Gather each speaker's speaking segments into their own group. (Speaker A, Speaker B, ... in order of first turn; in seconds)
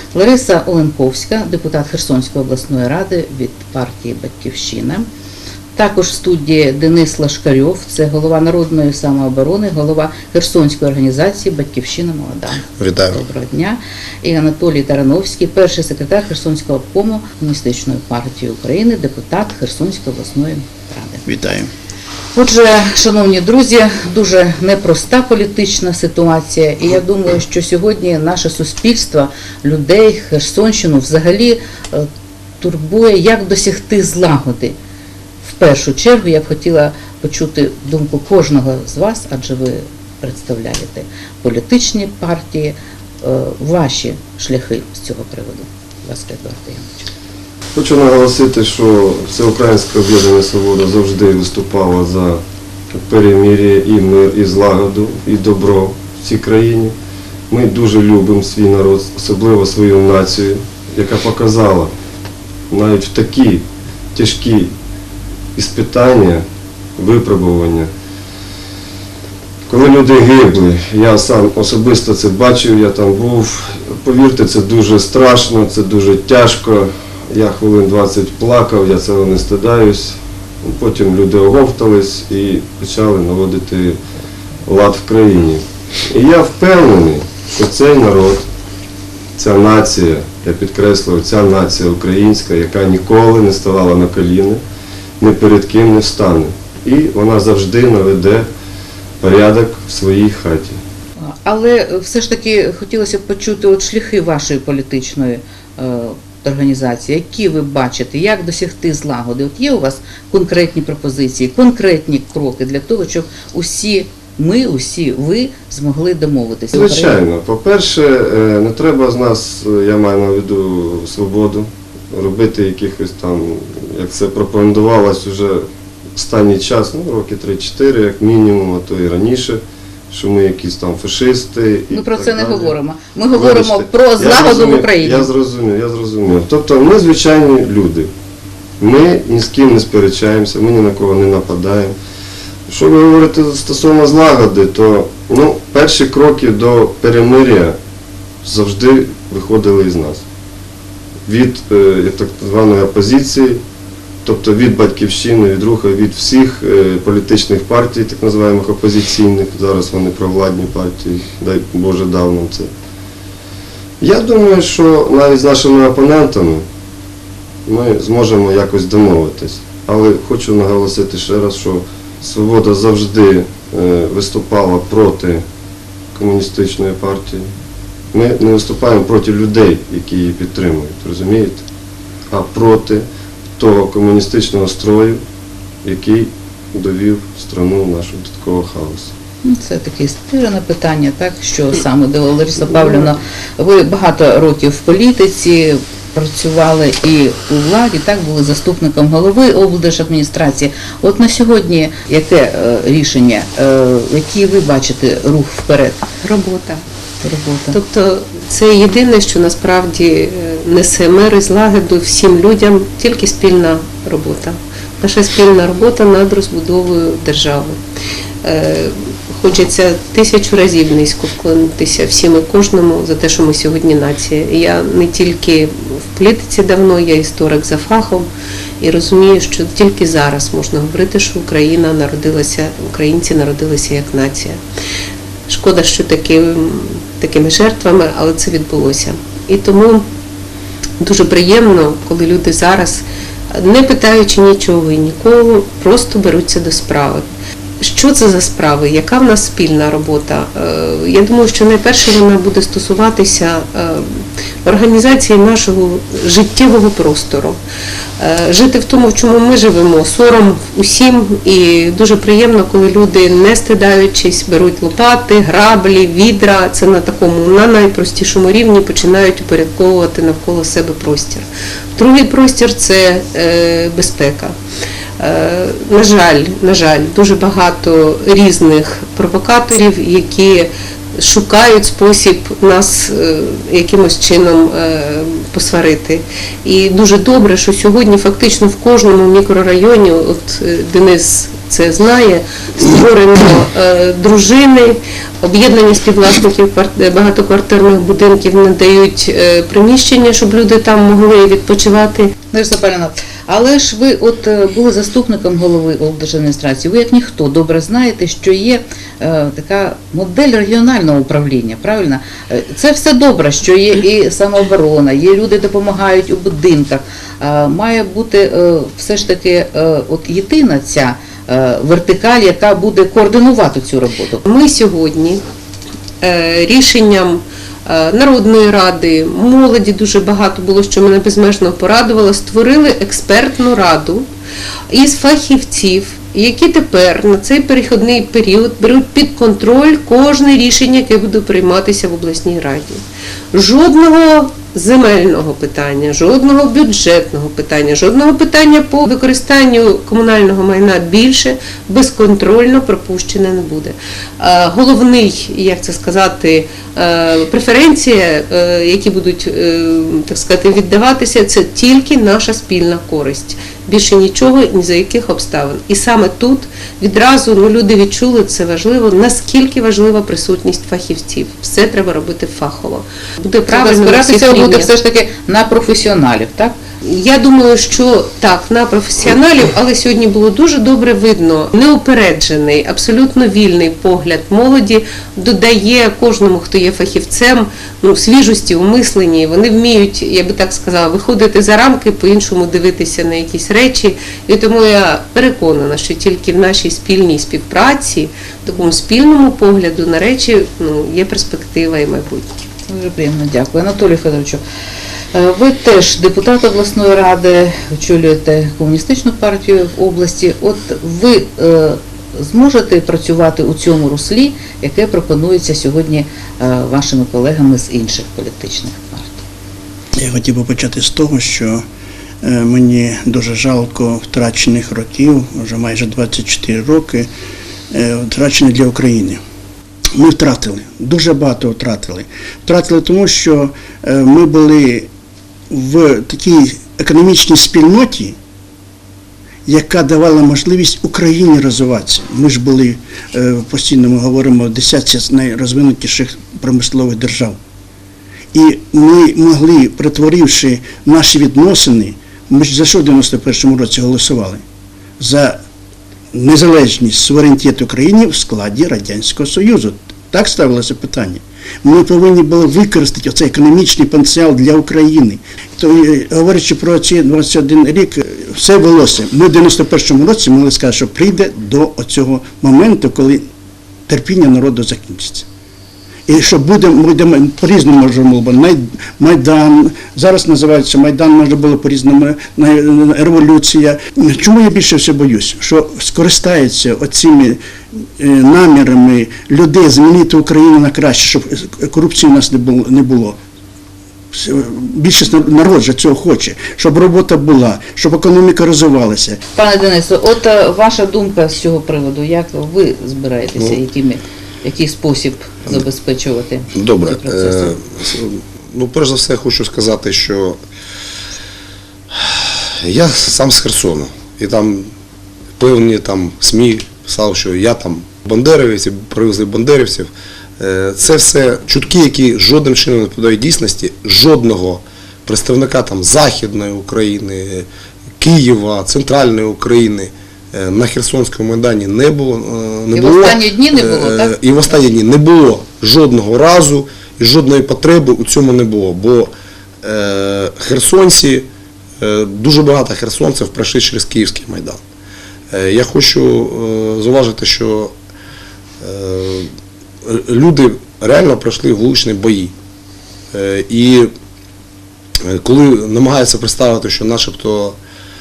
Speaker A: 0.1-5.1, 5.8-21.2, 22.3-32.1, 32.6-34.7, 35.4-47.1, 101.3-117.2, 131.9-135.3, 189.4-206.1, 207.2-207.8, 302.5-324.4, 373.7-376.7, 402.9-404.6, 405.3-419.4, 499.5-507.7, 532.9-534.3
Speaker B: 12.8-13.2, 506.7-510.6, 512.1-514.9, 515.6-527.6, 528.2-539.3, 539.8-541.5, 542.0-544.8, 545.5-547.9, 548.8-549.5, 550.0-552.5, 553.3-554.1, 555.2-557.8
Speaker C: 21.2-21.7, 420.1-421.8, 422.4-427.3, 427.9-429.4, 430.1-435.1, 435.7-438.4, 439.6-447.6, 448.5-454.6, 455.2-455.6, 456.3-473.4, 474.1-475.4, 476.3-493.4, 494.3-499.4
Speaker D: 47.7-52.4, 52.9-56.9, 57.5-61.9, 62.7-64.7, 65.5-66.4, 67.0-67.9, 69.7-84.0, 84.7-88.5, 89.4-94.6, 95.2-98.5, 99.2-100.8, 116.7-132.7, 133.3-138.1, 138.8-141.9, 142.7-147.8, 148.4-150.2, 151.2-153.6, 154.2-162.7, 164.0-166.6, 167.7-175.4, 176.1-177.5, 178.1-181.6, 182.3-183.0, 183.6-185.2, 185.8-189.1
Speaker E: 206.2-206.8, 207.7-217.8, 218.4-228.3, 228.8-234.6, 235.5-240.0, 241.0-247.2, 247.8-257.6, 258.2-274.5, 275.2-302.3, 324.4-325.4, 326.2-334.2, 334.9-343.0, 343.5-374.9, 377.0-402.6